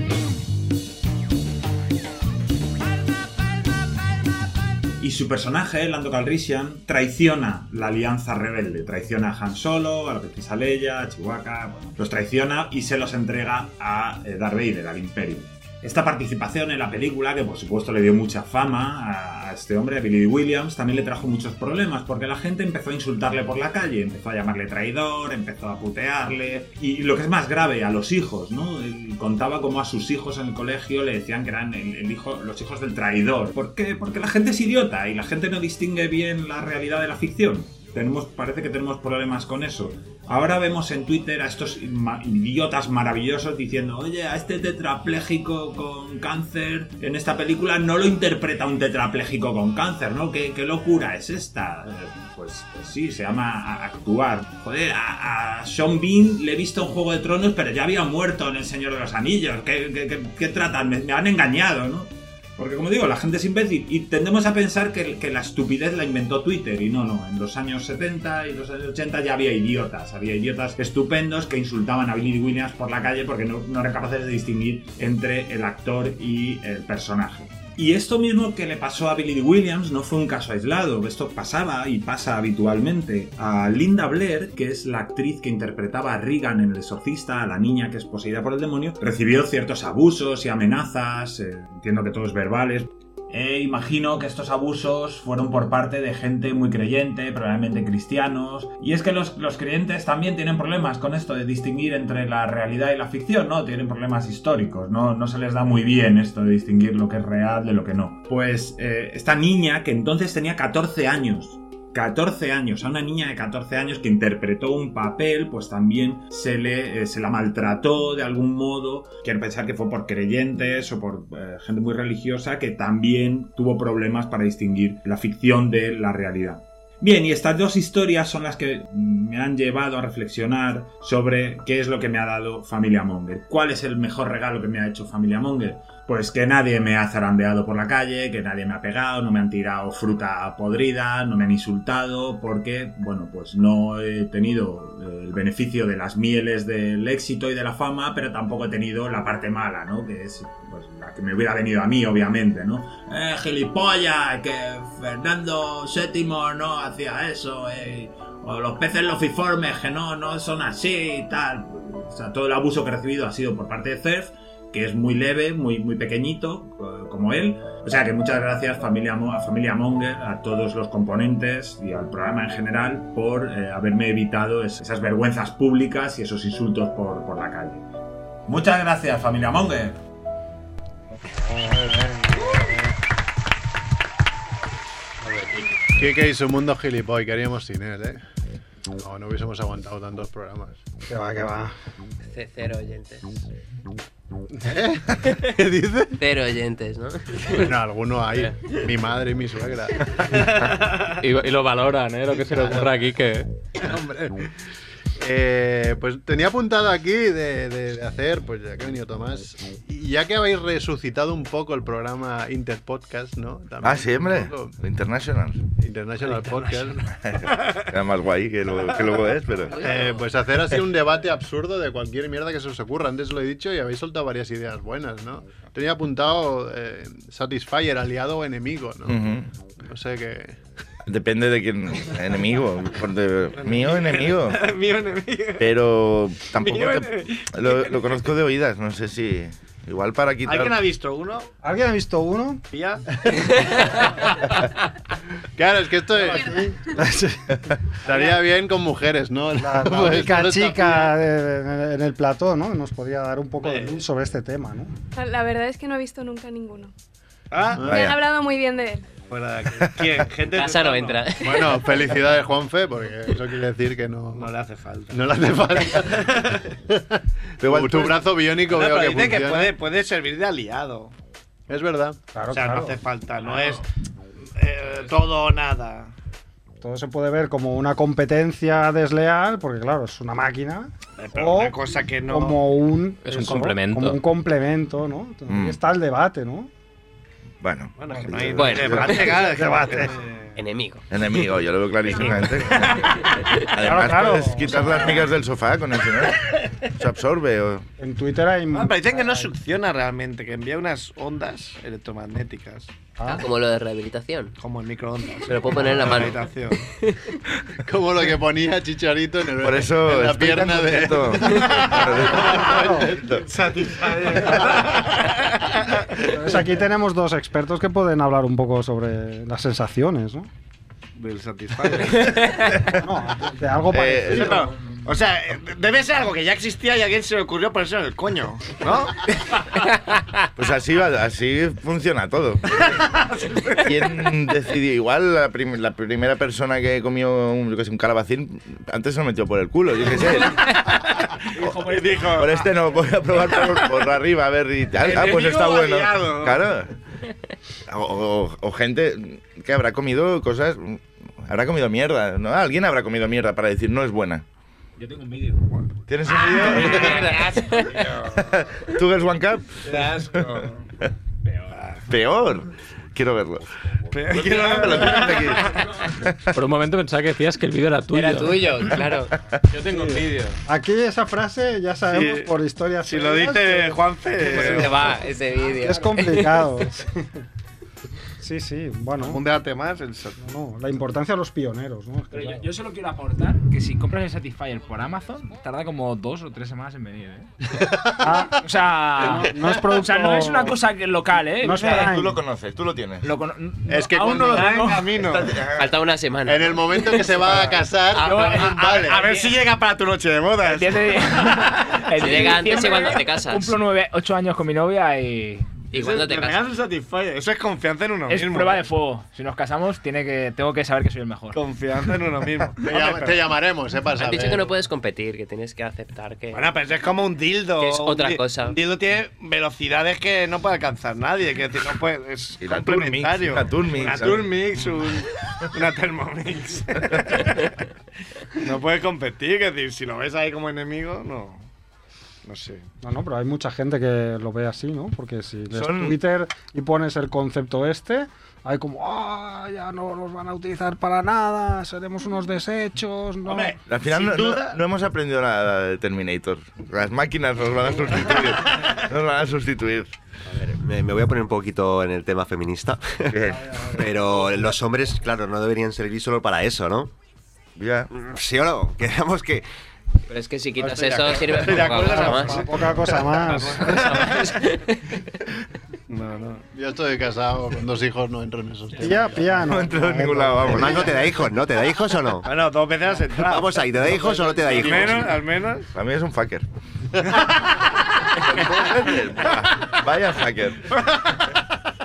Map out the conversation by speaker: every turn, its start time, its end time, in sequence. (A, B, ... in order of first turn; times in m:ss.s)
0:05.0-2:57.8 A
2:58.5-3:00.0 A
3:01.4-3:02.6 B
3:01.6-3:02.9 C
3:05.9-3:08.2 C
3:08.9-3:10.8 C
3:11.1-3:11.7 B
3:12.2-3:13.4 D
3:14.6-3:16.1 C
3:16.2-3:17.7 D
3:17.5-3:20.1 C
3:20.3-3:21.1 E
3:21.2-3:23.5 F
3:22.4-3:22.9 C
3:23.8-3:24.5 C
3:25.2-3:34.7 C
3:33.8-3:35.6 G
3:35.8-3:37.0 C
3:36.3-3:36.9 E
3:37.2-3:39.8 G
3:37.4-3:37.8 E
3:39.7-3:40.3 D
3:39.8-3:49.2 C
3:49.0-3:49.5 G
3:49.8-3:50.6 C
3:51.0-3:54.6 G
3:53.6-3:55.7 E
3:55.6-4:00.8 G
3:56.5-3:58.1 E
4:00.4-4:01.5 E
4:01.6-4:02.6 B
4:02.7-4:03.0 E
4:05.6-4:06.6 C
4:06.2-4:07.6 B
4:08.0-4:11.2 C
4:09.6-4:14.9 B
4:13.6-4:14.0 E
4:15.1-4:16.9 H
4:17.5-4:17.8 E
4:17.8-4:18.2 G
4:17.9-4:19.1 H
4:19.3-4:21.3 E
4:20.5-4:21.8 D
4:21.4-4:24.5 C
4:24.3-4:26.6 E
4:25.1-4:29.8 C
4:27.6-4:28.2 G
4:28.6-4:31.1 E
4:31.7-4:32.2 C
4:32.3-4:33.0 B
4:32.5-4:33.8 E
4:33.4-4:33.8 I
4:34.6-4:36.1 E
4:36.8-4:46.7 B
4:41.2-4:42.6 E
4:43.2-4:44.2 F
4:45.5-4:45.8 G
4:47.6-4:49.3 G
4:48.0-4:50.5 E
4:48.6-4:49.3 D
4:49.2-4:50.1 B
4:50.6-4:51.0 D
4:51.1-4:57.9 G
4:52.1-4:52.8 E
4:53.8-4:55.3 B
4:58.0-4:59.5 B
4:58.7-5:02.9 E
5:03.2-5:03.5 B
5:03.2-5:04.5 D
5:04.6-5:06.9 E
5:05.4-5:06.4 D
5:07.8-5:13.1 C
5:09.6-5:13.4 G
5:11.9-5:13.2 B
5:13.4-5:15.5 E
5:16.2-5:20.5 B
5:21.1-5:22.7 E
5:22.8-5:24.7 B
5:23.9-5:24.7 G
5:24.3-5:29.4 E
5:30.6-5:32.9 G
5:32.8-5:33.9 E
5:33.8-5:40.7 G
5:41.6-5:42.4 I
5:41.6-5:42.7 E
5:42.2-5:46.9 G
5:43.6-5:43.8 E
5:45.0-5:46.7 E
5:47.9-5:54.4 G
5:55.0-5:55.7 I
5:56.1-5:57.4 G
5:56.4-5:58.1 I
5:56.5-5:57.4 E
5:57.0-5:57.8 D
5:57.9-5:58.4 E
5:58.3-6:00.5 G
5:59.8-6:00.8 E
6:01.4-6:01.7 I
6:01.7-6:02.0 E
6:02.1-6:03.7 G
6:04.1-6:05.7 E
6:04.3-6:06.3 G
6:06.5-6:08.7 F
6:08.1-6:09.3 D
6:09.7-6:10.6 F
6:09.9-6:17.2 B
6:12.1-6:12.5 E
6:13.0-6:15.2 E
6:14.5-6:16.5 D
6:18.4-6:19.4 B
6:19.2-6:20.4 E
6:20.4-6:22.6 B
6:22.3-6:27.5 I
6:27.8-6:28.3 C
6:28.2-6:28.6 B
6:28.6-6:32.1 I
6:29.2-6:30.8 B
6:31.6-6:32.4 B
6:31.8-6:33.3 G
6:33.2-6:35.2 I
6:33.9-6:35.0 C
6:34.2-6:35.6 E
6:35.2-6:35.9 G
6:35.7-6:37.5 D
6:36.4-6:39.3 C
6:38.2-6:39.5 I
6:38.3-6:41.7 E
6:40.6-6:45.8 I
6:42.2-6:43.8 D
6:45.9-6:46.6 D
6:45.9-6:48.8 E
6:48.3-6:51.6 I
6:51.5-6:53.4 E
6:52.8-6:54.7 C
6:54.2-6:56.7 D
6:56.5-7:07.6 E
6:57.8-6:58.8 D
7:02.6-7:05.1 G
7:08.6-7:11.7 E
7:12.4-7:12.9 E
7:13.0-7:23.7 B
7:15.7-7:16.2 G
7:23.4-7:24.8 E
7:23.9-7:30.1 G
7:28.2-7:28.5 E
7:30.5-7:33.4 J
7:33.3-7:33.7 G
7:33.9-7:37.1 J
7:37.8-7:38.1 G
7:38.1-7:39.6 J
7:40.3-7:42.7 D
7:40.8-7:44.6 E
7:42.0-7:44.1 B
7:42.0-7:42.4 C
7:43.5-7:45.0 D
7:46.1-7:46.6 E
7:46.7-7:49.8 C
7:49.0-7:51.1 B
7:49.6-7:51.2 G
7:50.7-7:52.5 J
7:52.4-7:55.9 E
7:53.3-7:55.3 J
7:55.9-7:56.6 G
7:58.3-8:00.9 G
7:58.4-7:58.7 E
8:00.9-8:01.4 E